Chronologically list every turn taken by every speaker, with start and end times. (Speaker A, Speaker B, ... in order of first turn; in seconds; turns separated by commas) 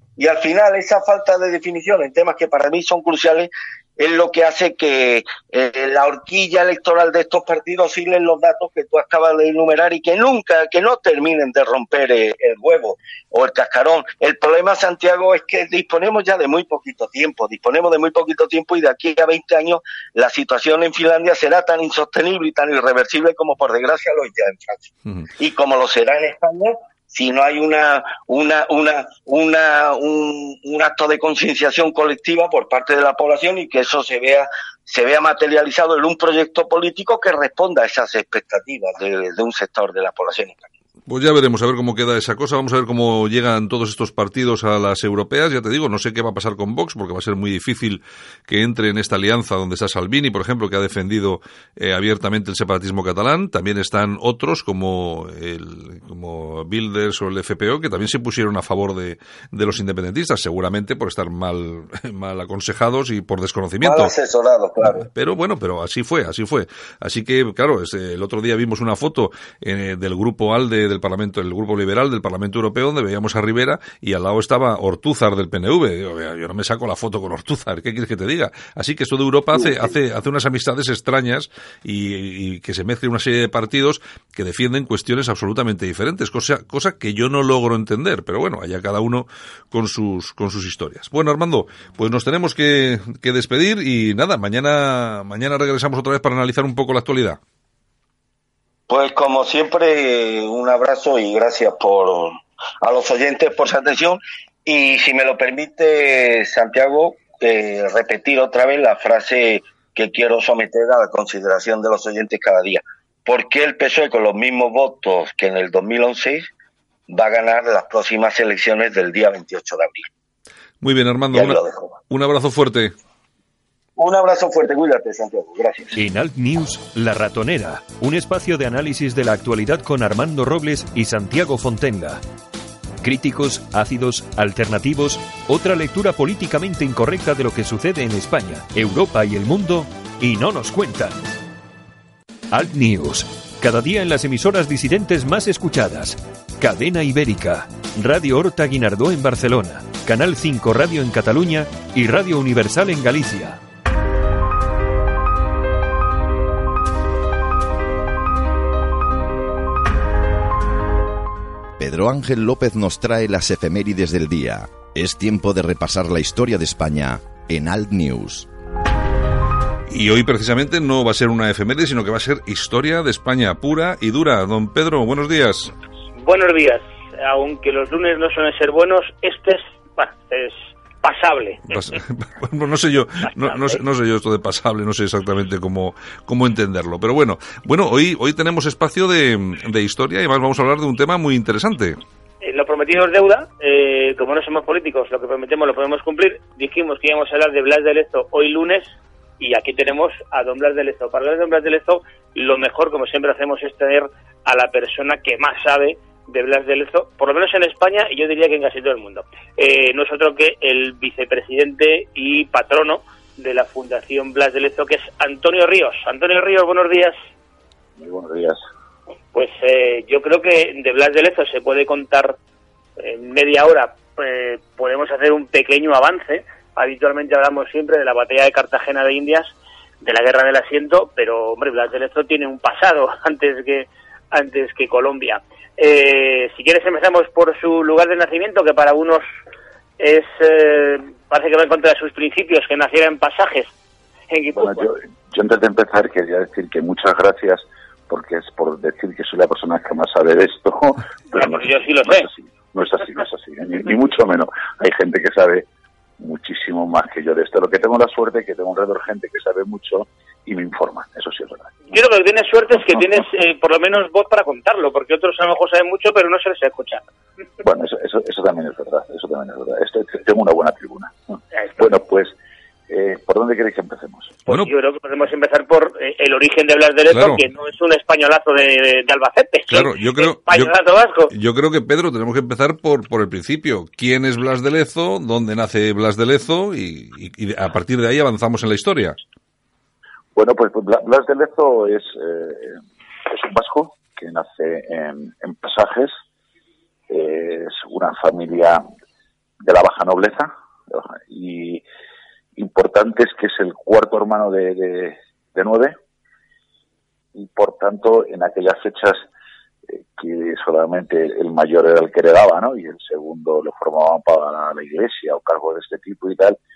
Speaker A: 0.2-40.7, Speaker B: 41.1-64.1, Speaker A: 63.8-65.1, Speaker B: 64.8-97.4, Speaker A: 98.9-116.5, Speaker A: 117.1-120.1, Speaker B: 120.8-123.0, Speaker A: 121.3-121.9, Speaker A: 124.0-126.0, Speaker C: 126.0-132.2, Speaker C: 133.0-141.2, Speaker C: 142.5-153.6, Speaker D: 161.8-168.5, Speaker B: 169.9-175.7, Speaker E: 176.2-181.8, Speaker B: 181.7-192.0, Speaker E: 183.4-183.8, Speaker E: 192.4-217.2, Speaker F: 218.0-218.6, Speaker E: 219.3-222.4, Speaker E: 223.0-239.2, Speaker E: 240.0-243.7, Speaker E: 244.3-244.9, Speaker F: 244.6-255.7, Speaker E: 251.3-252.3, Speaker F: 256.2-261.9, Speaker E: 261.9-267.0, Speaker F: 262.7-263.1, Speaker F: 267.6-272.3, Speaker F: 272.9-274.4, Speaker E: 274.5-281.3, Speaker B: 274.5-274.7, Speaker B: 277.1-277.4, Speaker B: 279.7-289.2, Speaker F: 290.4-296.1, Speaker F: 297.1-298.8, Speaker F: 299.6-301.8, Speaker F: 302.6-306.0, Speaker F: 307.4-309.2, Speaker F: 309.9-316.6